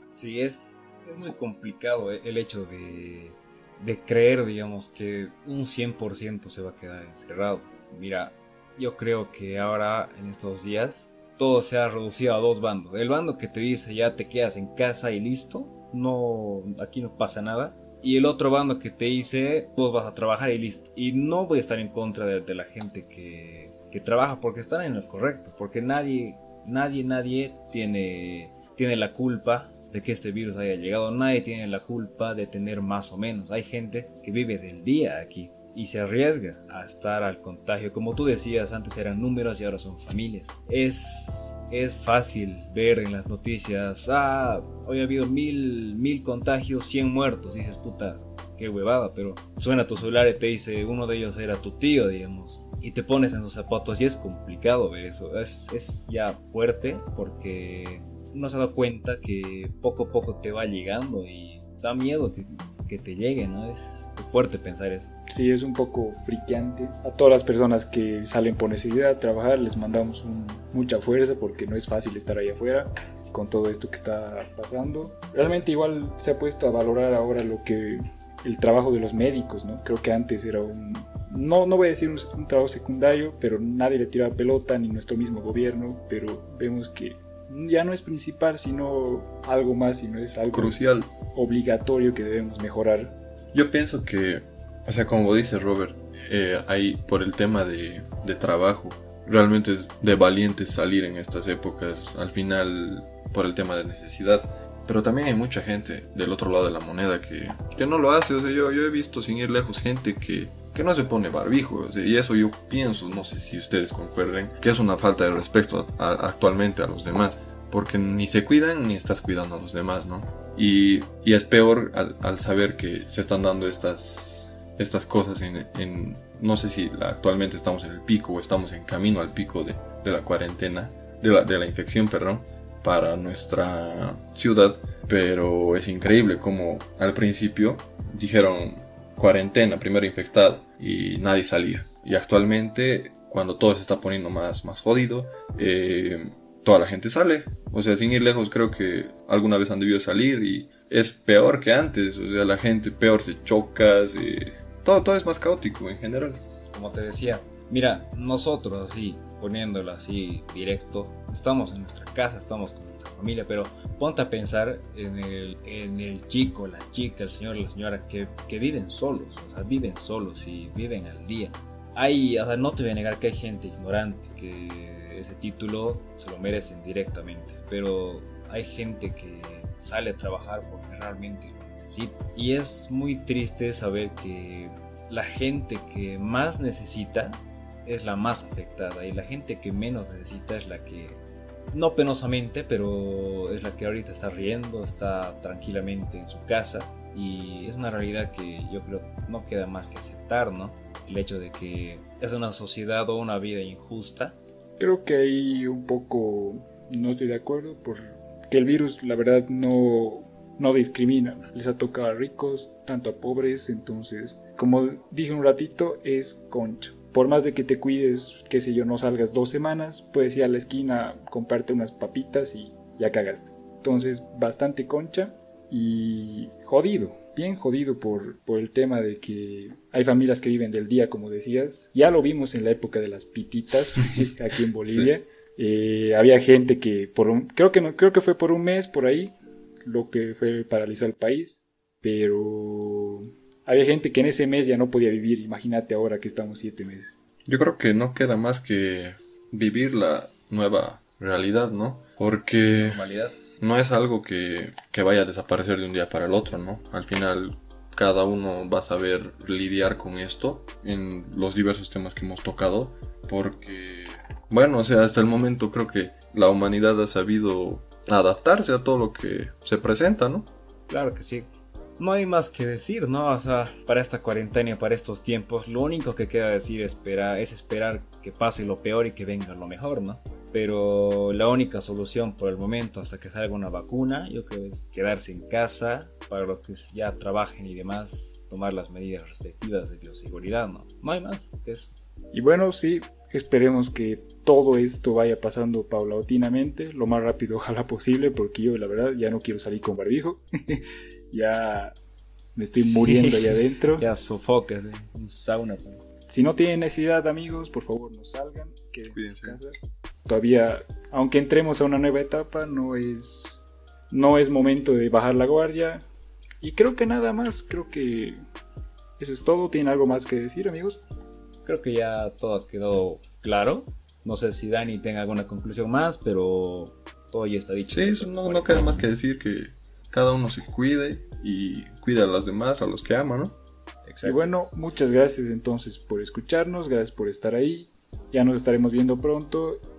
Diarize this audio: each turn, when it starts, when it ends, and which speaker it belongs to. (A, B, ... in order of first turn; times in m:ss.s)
0:00.1-1:05.1 A
1:05.3-1:33.2 B
1:30.5-1:31.1 C
1:33.5-2:36.4 C
2:36.7-3:11.2 A
3:11.7-3:24.4 A
3:24.8-4:07.2 B
3:54.9-3:55.1 C
4:07.5-4:13.1 C
4:12.7-4:13.4 A
4:13.6-4:30.5 C
4:30.9-4:51.9 A
4:52.3-5:02.0 B
5:02.6-5:04.0 B
5:02.8-5:06.0 A
5:06.3-5:16.0 B
5:09.1-5:09.6 C
5:16.6-5:18.4 B
5:19.2-5:21.0 B
5:21.6-5:29.1 A
5:27.9-5:33.6 C
5:34.1-5:34.5 A
5:34.2-5:39.8 B